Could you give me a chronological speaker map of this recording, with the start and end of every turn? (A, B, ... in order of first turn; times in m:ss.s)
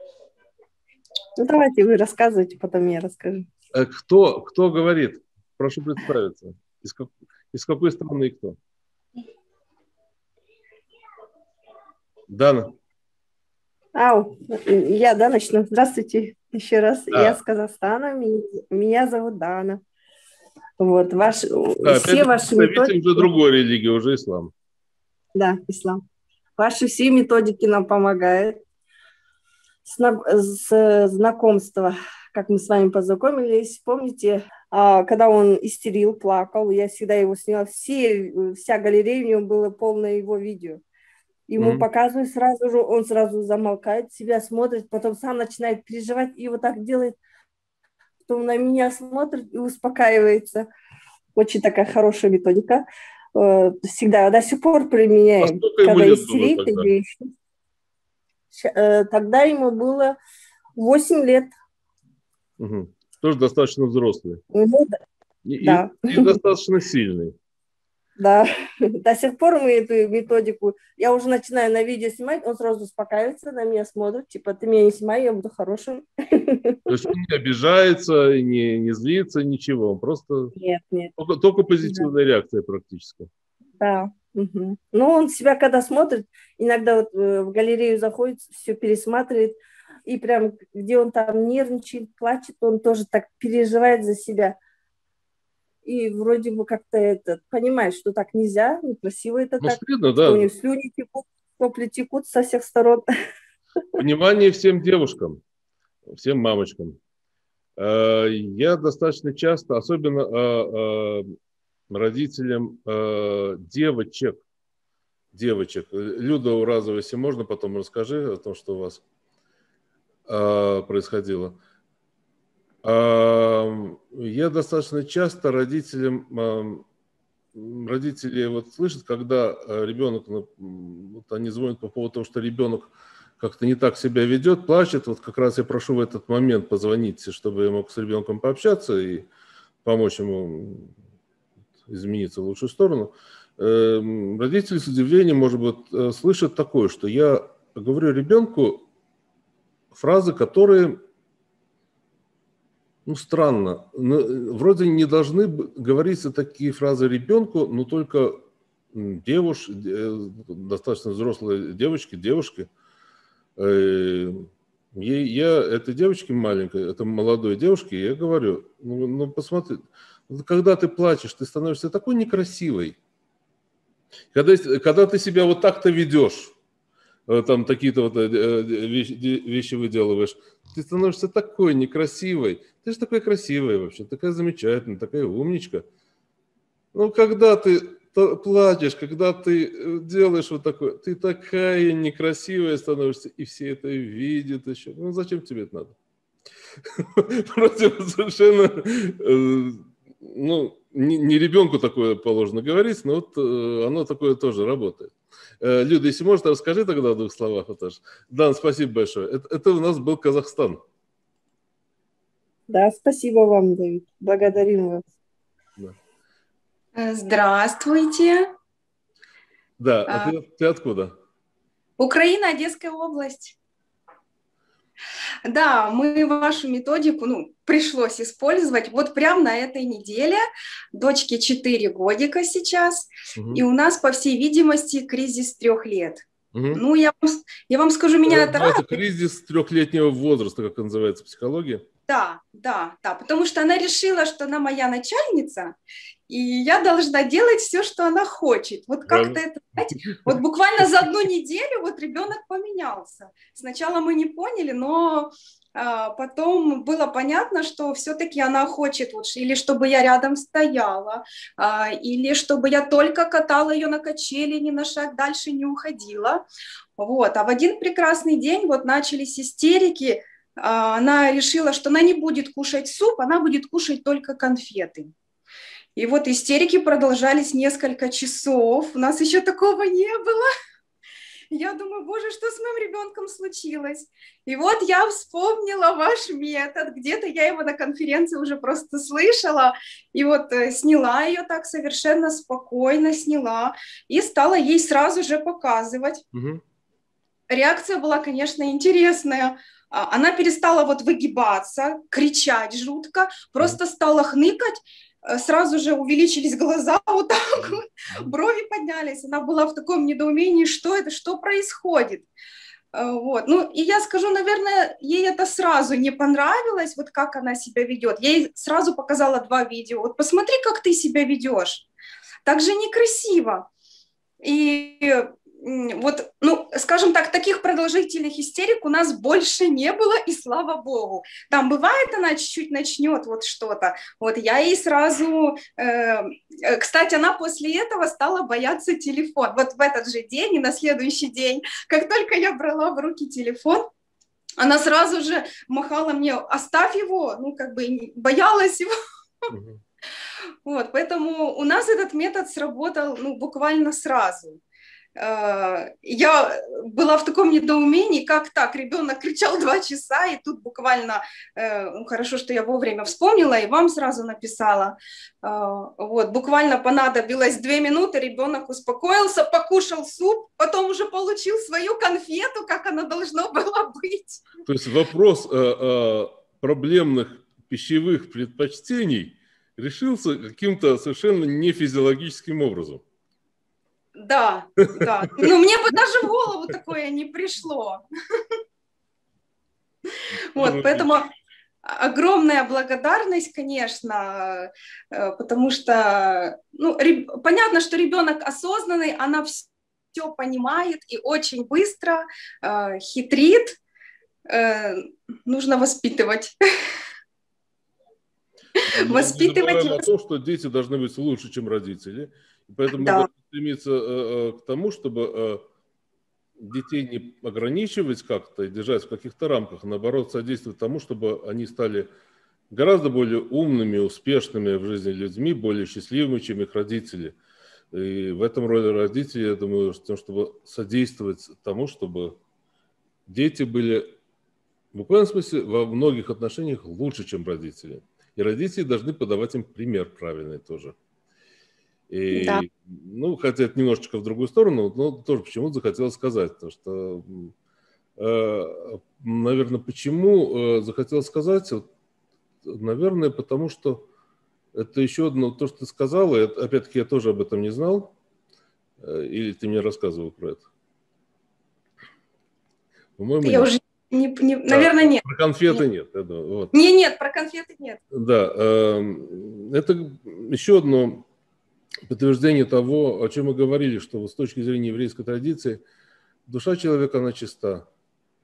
0:01.4-0:03.5 A
0:03.7-0:08.6 B
0:12.3-0:12.7 B
0:14.0-0:19.8 A
0:17.1-0:17.4 B
0:20.8-0:23.3 A
0:21.8-0:24.5 B
0:25.4-0:26.0 A
0:26.6-0:28.6 A
0:29.8-0:40.8 A
0:41.5-0:47.2 A
0:41.6-0:41.9 B
0:48.3-0:50.7 A
0:51.4-0:57.3 A
0:55.4-0:56.9 B
0:58.5-1:00.2 A
1:00.8-1:01.5 A
1:02.6-1:04.4 B
1:04.5-1:05.0 A
1:05.5-1:07.3 B
1:05.6-1:06.4 A
1:08.2-1:08.5 A
1:09.0-1:16.8 A
1:16.9-1:20.5 B
1:20.6-1:21.1 A
1:21.2-1:23.3 B
1:21.8-1:22.1 A
1:23.8-1:34.6 A
1:35.8-1:43.1 A
1:39.6-1:40.5 B
1:44.0-1:45.4 B
1:46.1-1:47.0 B
1:47.8-1:51.4 B
1:51.9-1:54.4 B
1:55.3-1:59.0 B
2:00.3-2:01.6 B
2:02.8-2:06.8 B
2:07.6-2:19.3 B
2:19.8-2:20.9 B
2:21.9-2:28.8 B
2:29.9-2:31.0 B
2:33.1-2:38.4 B
2:38.9-2:42.7 B
2:43.6-2:53.0 B
2:54.3-2:56.5 B
2:57.3-3:05.8 B
3:06.9-3:15.9 B
3:17.0-3:30.8 B
3:32.7-3:35.1 A
3:37.0-3:38.5 C
3:39.8-3:41.1 B
3:40.1-3:40.4 C
3:42.0-3:43.6 C
3:45.4-3:50.4 C
3:50.9-3:59.0 C
3:53.4-3:53.6 B
3:56.5-3:56.8 B
3:58.3-4:01.8 B
4:02.1-4:05.8 C
4:06.3-4:26.5 C
4:09.1-4:09.4 B
4:10.0-4:10.3 B
4:27.0-4:35.1 C
4:36.0-4:40.5 C
4:41.5-4:56.2 C
4:56.3-4:56.6 B
4:57.5-5:12.3 C
5:07.6-5:08.3 B
5:12.9-5:21.9 C
5:22.4-5:23.7 C
5:24.4-5:43.9 C
5:44.6-5:48.9 C
5:49.5-5:49.8 B
5:50.6-5:54.6 C
5:55.2-6:14.4 C
6:14.6-6:23.0 B
6:24.2-6:28.0 C
6:30.6-6:31.2 B
6:30.6-6:31.2 C
6:31.8-6:43.8 C
6:44.5-6:46.6 C
6:48.8-6:50.0 C
6:48.9-6:55.6 B
6:53.0-6:53.3 C
6:56.6-7:02.1 B
7:02.7-7:07.4 B
7:07.9-7:12.4 B
7:13.3-7:14.1 B
7:14.9-7:21.0 B
7:22.1-7:27.5 B
7:22.3-7:22.6 C
7:28.2-7:31.9 B
7:32.6-7:34.1 B
7:34.8-7:38.1 B
7:39.0-7:40.7 B
7:43.2-7:43.7 B
7:43.4-7:45.8 C
7:44.7-7:46.7 B
7:46.7-7:48.0 C
7:48.1-7:51.2 B
7:52.1-7:55.8 B
7:56.5-7:57.9 B